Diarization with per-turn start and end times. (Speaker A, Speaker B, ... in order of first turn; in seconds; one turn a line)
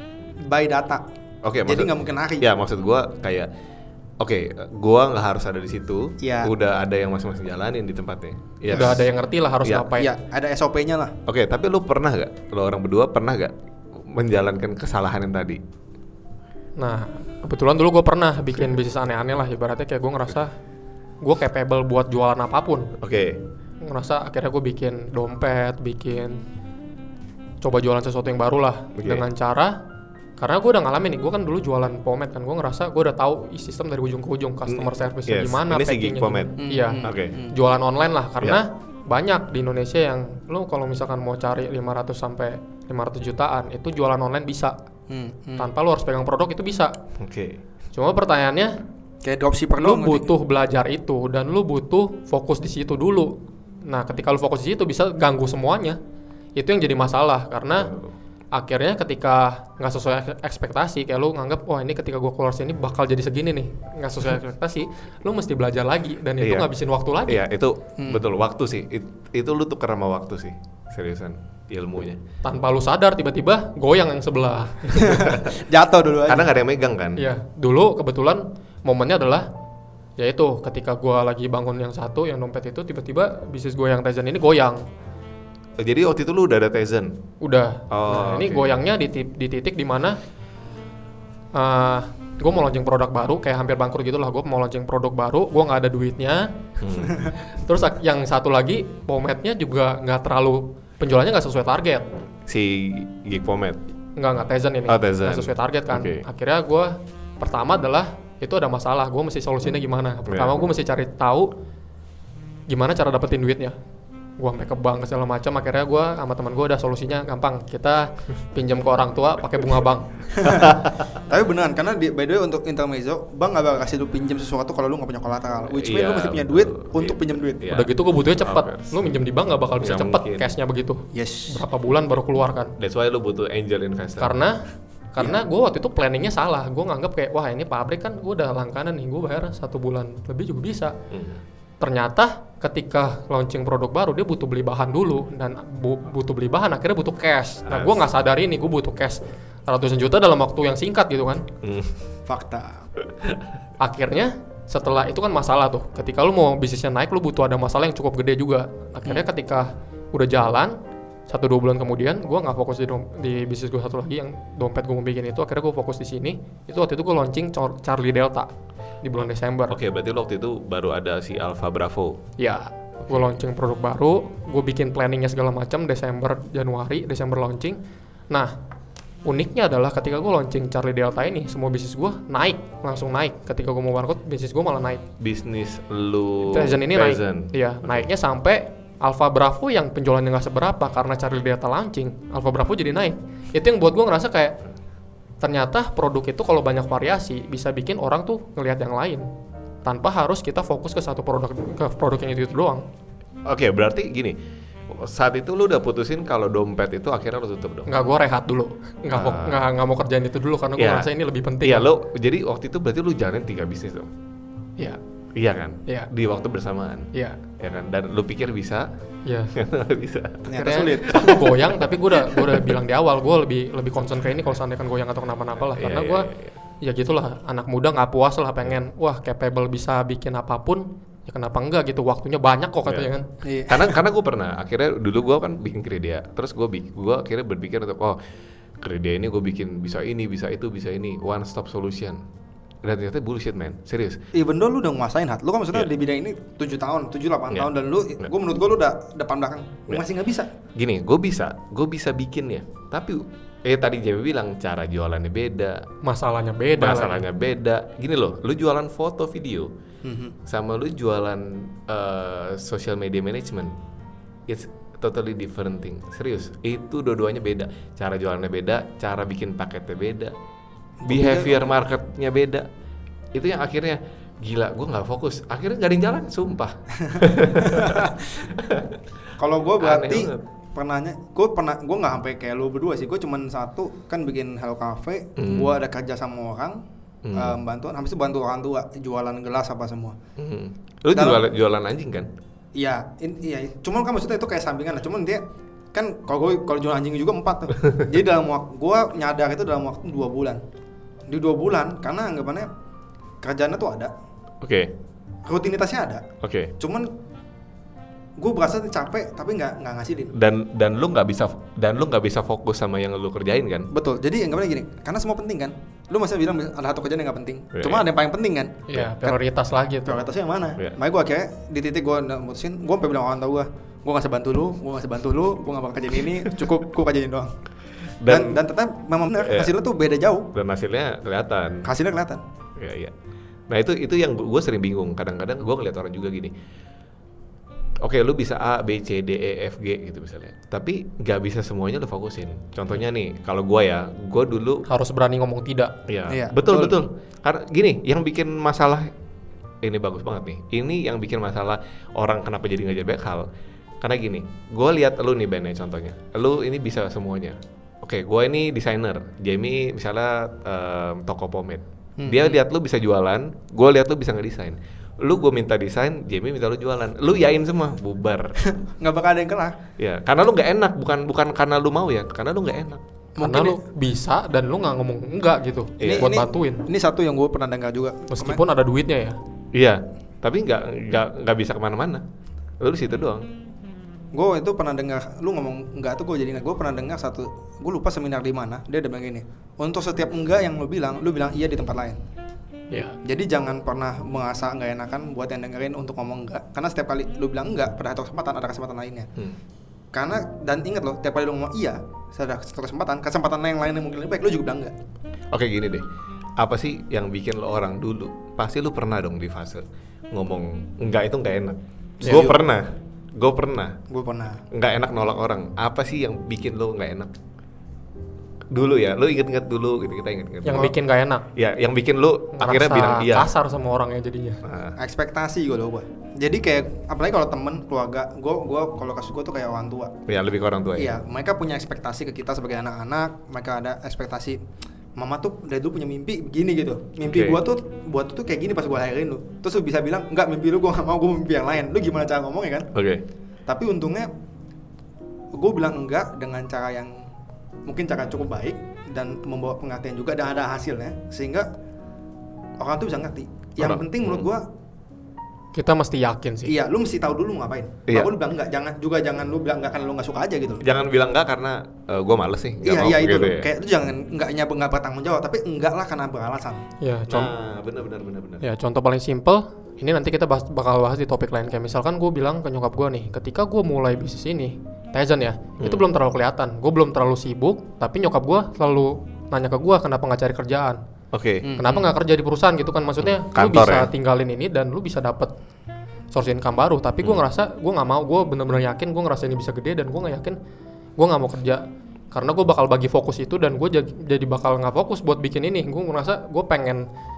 Speaker A: 0.4-1.0
Speaker B: 1.4-3.5
Speaker A: 1.7-2.5
Speaker B: 4.2-9.1
Speaker A: 6.2-6.5
Speaker C: 8.7-10.1
Speaker A: 9.9-11.2
Speaker B: 11.3-15.6
Speaker C: 16.8-20.5
Speaker C: 21.2-22.9
Speaker B: 23.0-23.4
Speaker C: 23.8-26.4
Speaker C: 27.6-29.8
Speaker B: 29.0-29.2
Speaker C: 30.4-44.8
Speaker B: 34.7-37.4
Speaker A: 36.6-37.6
Speaker A: 45.1-45.7
Speaker C: 45.6-46.9
Speaker B: 47.2-47.6
Speaker C: 47.9-48.7
Speaker A: 49.2-50.3
Speaker C: 49.8-56.0
Speaker C: 56.6-57.9
Speaker B: 57.8-58.1
Speaker C: 58.5-67.4
Speaker B: 66.4-66.7
Speaker B: 67.3-72.2
Speaker C: 72.4-75.5
Speaker A: 74.9-76.5
Speaker B: 76.3-77.2
Speaker C: 77.2-79.5
Speaker C: 80.2-84.8
Speaker B: 85.8-87.2
Speaker C: 87.4-90.2
Speaker B: 87.9-88.8
Speaker C: 91.5-96.5
Speaker B: 96.8-97.3
Speaker C: 97.2-102.0
Speaker B: 102.5-103.8
Speaker C: 104.2-111.5
Speaker B: 104.9-106.2
Speaker B: 110.3-110.6
Speaker C: 112.7-113.7
Speaker C: 114.4-120.5
Speaker A: 120.4-120.7
Speaker B: 120.5-121.1
Speaker A: 121.3-127.7
Speaker B: 125.7-129.1
Speaker C: 127.7-132.7
Speaker B: 129.8-130.5
Speaker A: 131.1-131.6
Speaker B: 132.8-134.4
Speaker C: 134.2-134.6
Speaker C: 135.2-140.9
Speaker A: 135.2-135.4
Speaker B: 141.1-141.4
Speaker C: 141.8-151.4
Speaker B: 147.7-148.1
Speaker B: 151.6-152.0
Speaker A: 152.3-152.9
Speaker C: 153.8-160.7
Speaker C: 161.3-168.5
Speaker C: 169.0-169.8
Speaker B: 169.7-172.2
Speaker C: 172.4-177.8
Speaker B: 173.1-173.4
Speaker C: 179.3-185.0
Speaker B: 185.2-188.1
Speaker C: 186.4-194.6
Speaker C: 195.4-199.2
Speaker C: 199.8-202.8
Speaker B: 203.4-204.4
Speaker B: 204.9-207.9
Speaker C: 207.9-211.9
Speaker B: 209.1-209.7
Speaker B: 210.8-211.1
Speaker B: 211.6-214.1
Speaker B: 215.4-217.1
Speaker C: 217.1-217.4
Speaker B: 217.6-218.9
Speaker C: 219.2-219.5
Speaker B: 219.6-222.8
Speaker A: 220.5-221.5
Speaker C: 220.5-226.3
Speaker B: 225.6-226.5
Speaker C: 226.8-233.3
Speaker A: 233.4-234.0
Speaker B: 233.7-238.2
Speaker B: 238.8-242.2
Speaker B: 242.8-244.2
Speaker A: 244.3-250.5
Speaker B: 250.8-255.8
Speaker C: 256.0-257.2
Speaker B: 256.8-259.7
Speaker A: 260.0-260.4
Speaker B: 260.5-263.7
Speaker B: 264.5-270.3
Speaker A: 271.0-271.7
Speaker B: 271.1-272.7
Speaker B: 273.3-279.0
Speaker A: 277.1-278.1
Speaker A: 279.4-286.8
Speaker B: 279.8-280.4
Speaker B: 285.4-285.8
Speaker B: 287.3-287.6
Speaker A: 287.3-290.2
Speaker B: 290.4-292.3
Speaker A: 291.1-291.4
Speaker A: 292.8-295.4
Speaker A: 295.9-300.6
Speaker A: 301.3-302.7
Speaker A: 303.4-304.1
Speaker B: 304.6-304.9
Speaker A: 305.4-306.2
Speaker B: 306.4-306.7
Speaker A: 306.8-307.1
Speaker A: 308.4-310.3
Speaker B: 310.3-313.9
Speaker A: 313.9-319.4
Speaker B: 317.8-318.1
Speaker C: 318.9-320.2
Speaker A: 320.1-327.5
Speaker B: 328.2-328.6
Speaker A: 328.3-330.5
Speaker B: 329.4-329.7
Speaker B: 330.5-331.9
Speaker A: 331.9-332.4
Speaker B: 332.8-333.1
Speaker B: 333.7-336.5
Speaker B: 338.0-344.9
Speaker C: 344.9-345.9
Speaker B: 346.1-349.1
Speaker A: 346.3-347.0
Speaker B: 349.8-353.5
Speaker B: 354.0-368.6
Speaker A: 362.2-362.6
Speaker A: 368.6-369.8
Speaker B: 370.0-373.0
Speaker A: 373.4-373.8
Speaker C: 373.4-376.8
Speaker B: 376.0-376.3
Speaker A: 376.0-378.6
Speaker C: 378.3-379.4
Speaker B: 379.7-382.2
Speaker B: 382.8-383.4
Speaker A: 384.3-392.2
Speaker C: 392.9-393.2
Speaker A: 393.2-399.3
Speaker A: 400.1-404.9
Speaker B: 405.5-406.1
Speaker B: 406.6-414.0
Speaker A: 412.2-412.6
Speaker A: 414.1-414.6
Speaker B: 414.7-417.3
Speaker B: 418.7-420.9
Speaker C: 420.6-421.4
Speaker B: 421.6-423.5
Speaker C: 422.6-424.6
Speaker B: 424.6-425.0
Speaker A: 425.0-430.1
Speaker B: 430.3-431.1
Speaker A: 431.0-434.6
Speaker A: 435.2-442.9
Speaker B: 437.2-437.6
Speaker B: 442.9-443.2
Speaker A: 443.7-444.3
Speaker A: 445.5-447.1
Speaker A: 447.9-451.7
Speaker A: 452.8-454.6
Speaker B: 453.8-454.5
Speaker C: 455.7-456.7
Speaker A: 456.6-460.9
Speaker B: 458.1-458.3
Speaker B: 460.8-463.7
Speaker A: 462.8-466.8
Speaker C: 467.0-467.5
Speaker B: 467.3-468.6
Speaker C: 468.6-481.0
Speaker B: 481.3-481.7
Speaker A: 481.6-482.1
Speaker C: 481.8-485.5
Speaker B: 483.2-484.1
Speaker C: 486.3-490.6
Speaker C: 491.2-497.1